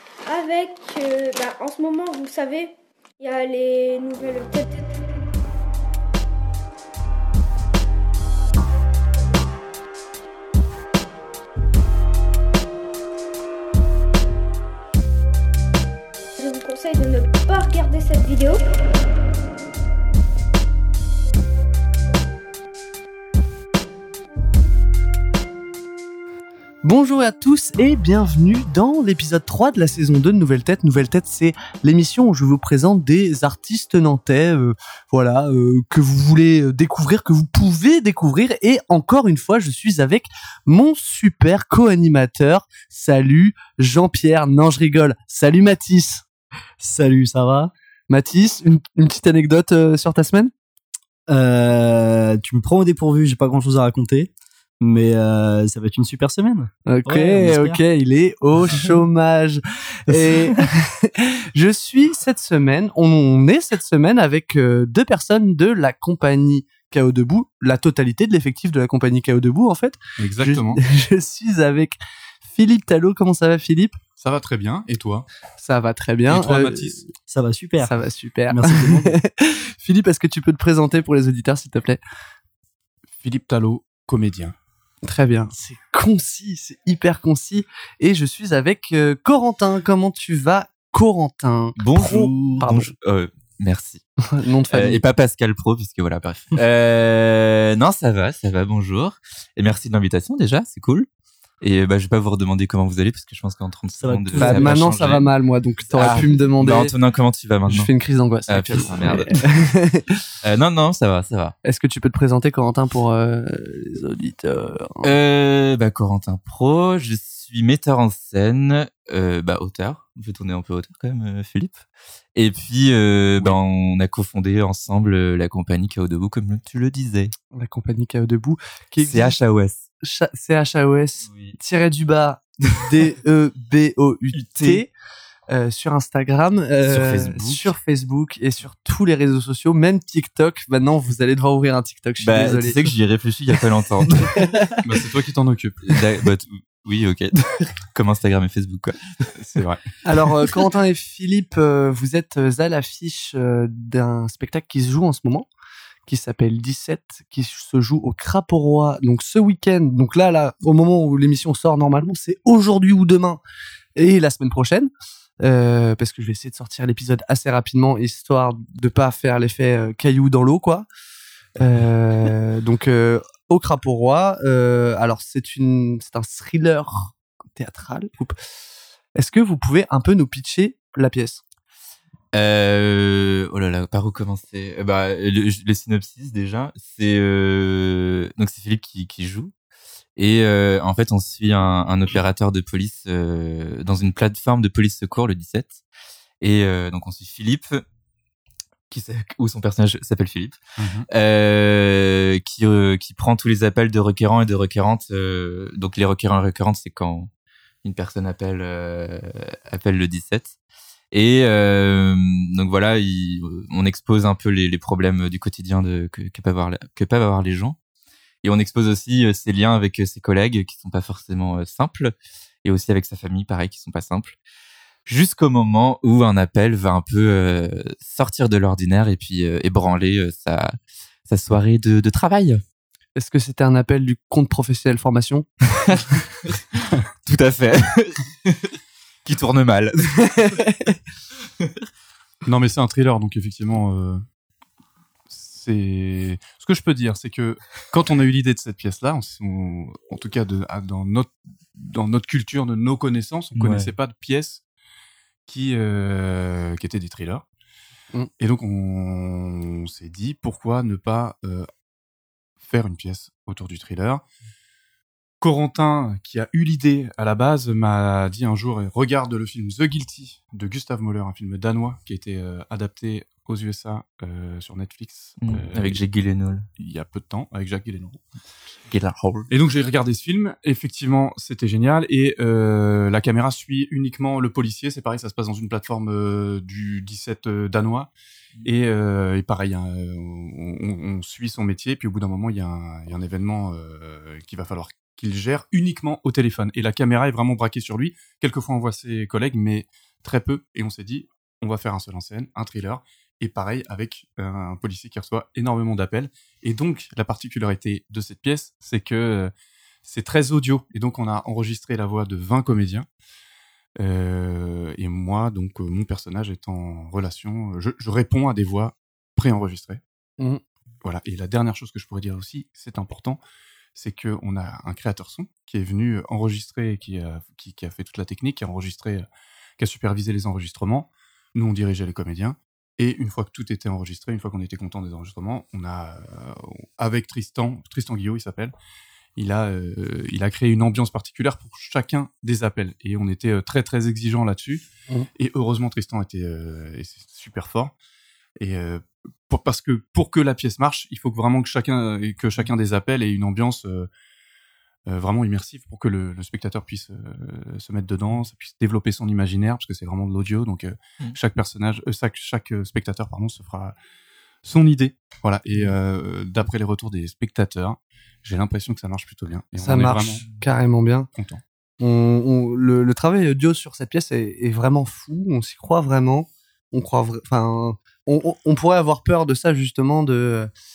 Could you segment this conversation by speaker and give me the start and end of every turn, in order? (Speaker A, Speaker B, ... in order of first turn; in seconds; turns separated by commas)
Speaker A: 0.2-5.0, Speaker A: 16.4-18.6, Speaker B: 26.8-46.2, Speaker C: 46.8-47.7, Speaker B: 48.1-50.5, Speaker C: 51.3-57.8, Speaker B: 56.9-74.0, Speaker C: 60.1-60.5, Speaker D: 70.2-70.8, Speaker D: 74.2-75.3, Speaker B: 75.6-77.1, Speaker D: 76.3-77.0, Speaker C: 77.3-77.9, Speaker B: 77.8-82.0, Speaker C: 78.5-79.2, Speaker D: 83.2-84.5, Speaker B: 85.0-92.9, Speaker E: 91.8-94.0, Speaker B: 94.2-95.0, Speaker E: 94.7-101.1, Speaker E: 101.6-105.3, Speaker C: 103.9-104.9, Speaker B: 104.4-106.9, Speaker E: 105.9-107.9, Speaker B: 107.7-110.2, Speaker E: 108.5-109.5, Speaker E: 110.4-111.6, Speaker B: 111.6-115.1, Speaker E: 115.0-121.8, Speaker E: 122.3-127.3, Speaker B: 127.5-129.3, Speaker E: 129.0-129.8, Speaker B: 130.0-134.9, Speaker E: 131.3-131.6, Speaker E: 134.3-134.8, Speaker B: 135.5-142.8, Speaker E: 136.9-137.7, Speaker E: 142.2-144.6, Speaker B: 144.1-144.8, Speaker D: 144.8-145.9, Speaker E: 145.8-149.3, Speaker D: 149.3-149.9, Speaker B: 150.1-155.5, Speaker B: 156.1-163.4, Speaker B: 164.0-164.9, Speaker B: 165.4-170.9, Speaker B: 171.6-178.4, Speaker B: 179.2-181.4, Speaker E: 182.3-189.5, Speaker E: 190.2-195.8, Speaker E: 196.4-197.8, Speaker E: 198.9-207.3, Speaker D: 200.8-201.1, Speaker E: 207.8-210.6, Speaker E: 211.1-217.8, Speaker E: 218.4-224.4, Speaker E: 225.1-232.6, Speaker B: 233.2-235.5, Speaker E: 236.7-238.7, Speaker E: 239.2-240.6, Speaker B: 240.2-240.9, Speaker D: 242.4-244.2, Speaker D: 245.3-254.6, Speaker C: 253.6-253.9, Speaker D: 255.4-257.4, Speaker D: 258.4-261.7, Speaker D: 262.6-264.2, Speaker D: 265.4-276.0, Speaker E: 275.4-276.7, Speaker D: 276.8-278.2, Speaker E: 278.9-279.5, Speaker D: 279.5-288.1, Speaker D: 288.6-309.5, Speaker D: 310.1-313.1, Speaker D: 314.0-320.0, Speaker D: 321.0-323.4, Speaker D: 323.9-329.3, Speaker D: 329.8-338.7, Speaker D: 339.4-344.8, Speaker D: 345.4-347.9, Speaker D: 348.6-354.1, Speaker D: 355.1-363.9, Speaker D: 364.6-370.4, Speaker B: 369.8-371.3, Speaker E: 370.0-370.6, Speaker D: 371.4-371.6, Speaker B: 372.0-380.7